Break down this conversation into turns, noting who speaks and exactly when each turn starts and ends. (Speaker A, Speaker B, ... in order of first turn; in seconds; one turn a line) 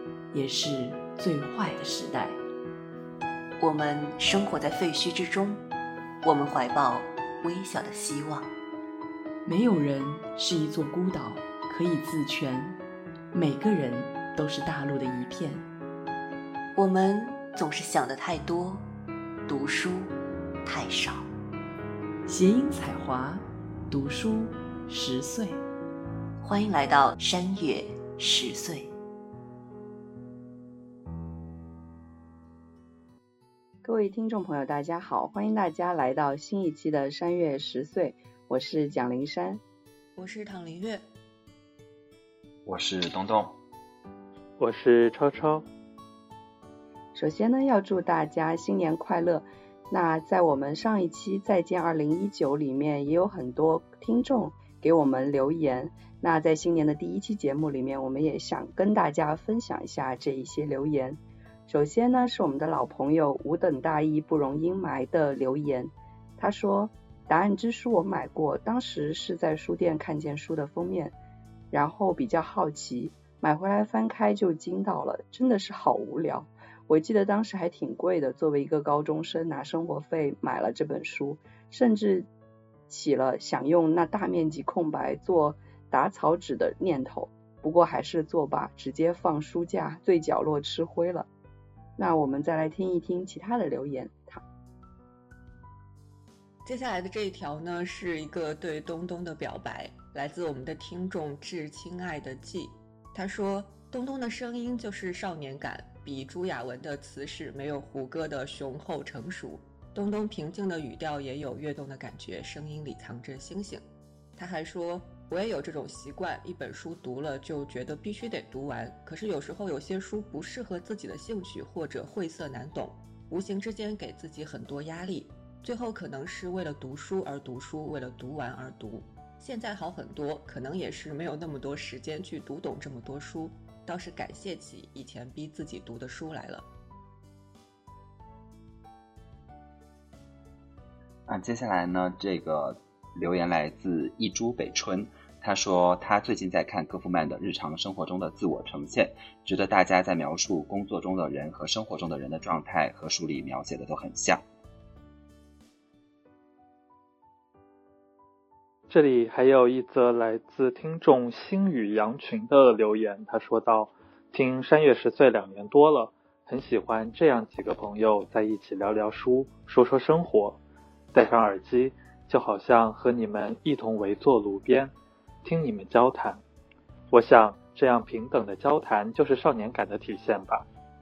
Speaker A: 0.3-2.4
Speaker B: 3.6-5.6
Speaker B: 6.2-8.5
Speaker A: 9.4-12.8
Speaker A: 13.3-15.7
Speaker B: 16.7-18.8
Speaker B: 19.5-20.1
Speaker B: 20.6-21.3
Speaker A: 22.2-25.6
Speaker B: 26.4-28.9
Speaker C: 33.8-39.6
Speaker D: 40.1-41.0
Speaker E: 42.6-43.5
Speaker F: 44.6-45.6
Speaker C: 47.1-71.1
Speaker C: 71.7-82.3
Speaker C: 82.9-91.3
Speaker C: 92.0-94.4
Speaker D: 96.6-113.8
Speaker D: 114.3-136.6
Speaker E: 141.3-154.4
Speaker F: 158.9-170.6
Speaker F: 171.1-176.4
Speaker F: 177.1-180.7